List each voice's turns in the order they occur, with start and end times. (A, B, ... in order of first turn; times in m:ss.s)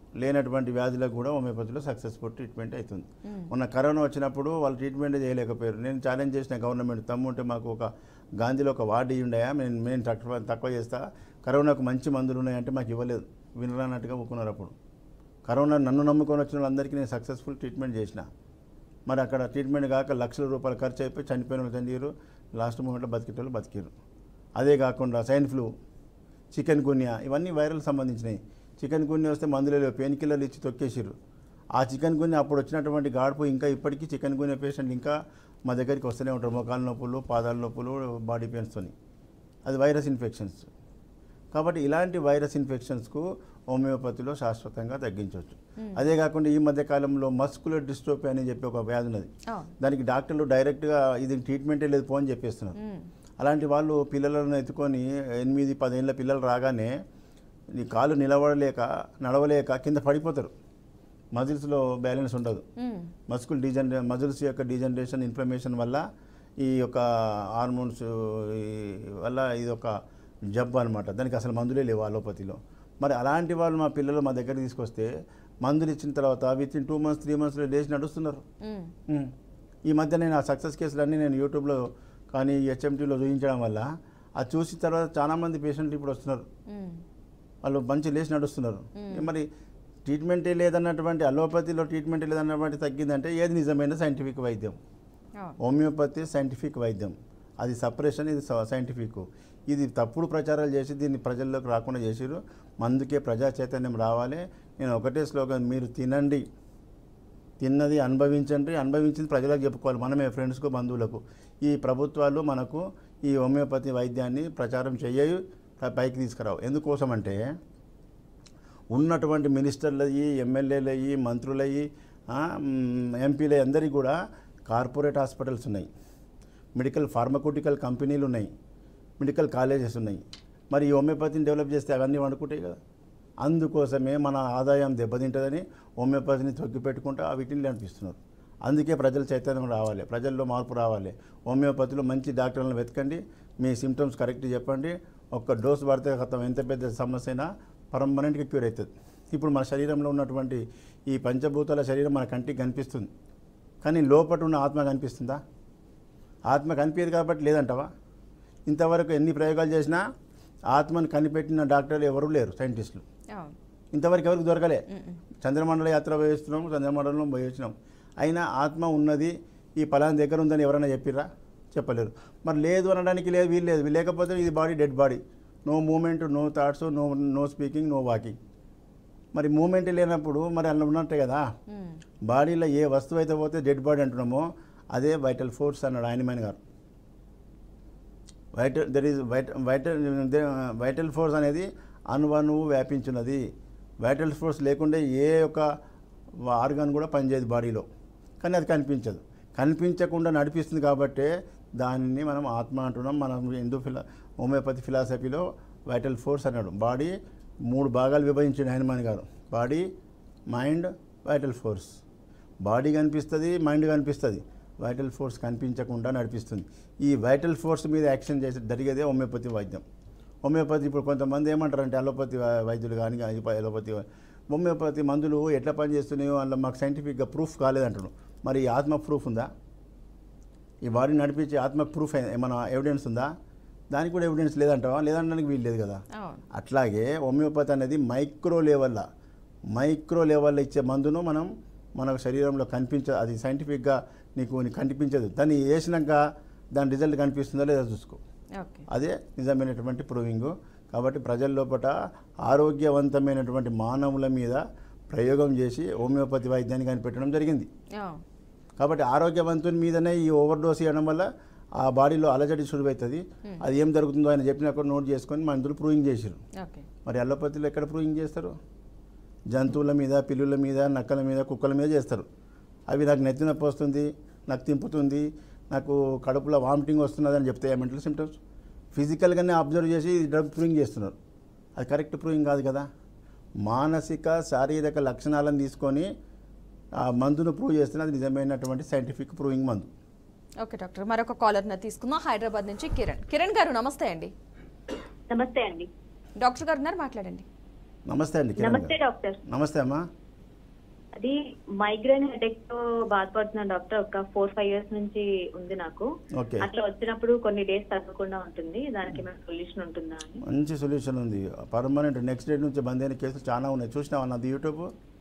0:00.2-0:14.7 A
0:03.2-0:03.5 B
0:15.5-0:18.2 A
0:19.1-0:23.9 A
0:24.6-0:25.7 A
0:26.5-0:31.2 A
0:31.8-0:38.9 A
0:39.7-0:40.7 A
0:41.5-0:52.8 A
0:45.8-0:46.1 B
0:52.8-0:53.1 B
0:53.4-0:56.9 A
0:57.8-1:00.5 A
1:01.4-1:02.6 A
1:02.8-1:03.1 B
1:03.3-1:06.0 A
1:06.6-1:09.9 A
1:10.5-1:15.1 A
1:15.6-1:18.4 A
1:18.6-1:18.9 B
1:19.1-1:19.3 A
1:19.9-1:26.5 A
1:26.7-1:27.0 B
1:27.6-1:29.5 A
1:29.0-1:29.3 B
1:30.1-1:34.8 A
1:35.6-1:46.4 A
1:47.6-1:57.4 A
1:58.9-2:04.2 A
2:04.7-2:05.9 A
2:06.8-2:08.5 A
2:09.2-2:12.8 A
2:13.4-2:33.1 A
2:33.8-2:35.4 A
2:36.5-2:37.9 A
2:38.7-2:40.0 A
2:40.7-2:43.0 A
2:43.9-2:44.8 A
2:44.9-2:45.2 B
2:45.4-2:58.4 A
2:59.3-3:01.5 A
3:01.7-3:02.0 B
3:02.3-3:06.6 A
3:08.6-3:13.4 A
3:14.0-3:15.6 A
3:16.5-3:17.9 A
3:18.4-3:27.2 A
3:27.7-3:29.9 A
3:30.5-3:32.0 A
3:32.6-3:39.8 A
3:40.4-3:49.5 A
3:50.9-3:53.3 A
3:53.9-3:56.0 A
3:56.2-3:56.4 B
3:56.5-3:59.0 A
3:59.8-4:06.2 A
4:06.8-4:08.2 A
4:08.6-4:08.8 B
4:08.9-4:11.9 A
4:12.4-4:17.7 A
4:18.0-4:18.2 B
4:18.8-4:26.4 A
4:26.6-4:26.9 B
4:27.1-4:28.6 A
4:29.5-4:32.3 A
4:32.9-4:38.4 A
4:39.0-4:41.2 A
4:41.8-4:42.9 A
4:43.6-4:46.1 A
4:47.0-4:49.9 A
4:50.6-4:54.3 B
4:55.3-4:55.9 C
4:56.4-4:57.5 B
4:58.1-4:59.0 A
4:58.6-4:59.4 C
4:59.5-5:00.0 A
5:01.2-5:06.1 C
5:06.4-5:06.7 A
5:06.6-5:10.4 C
5:10.4-5:14.9 A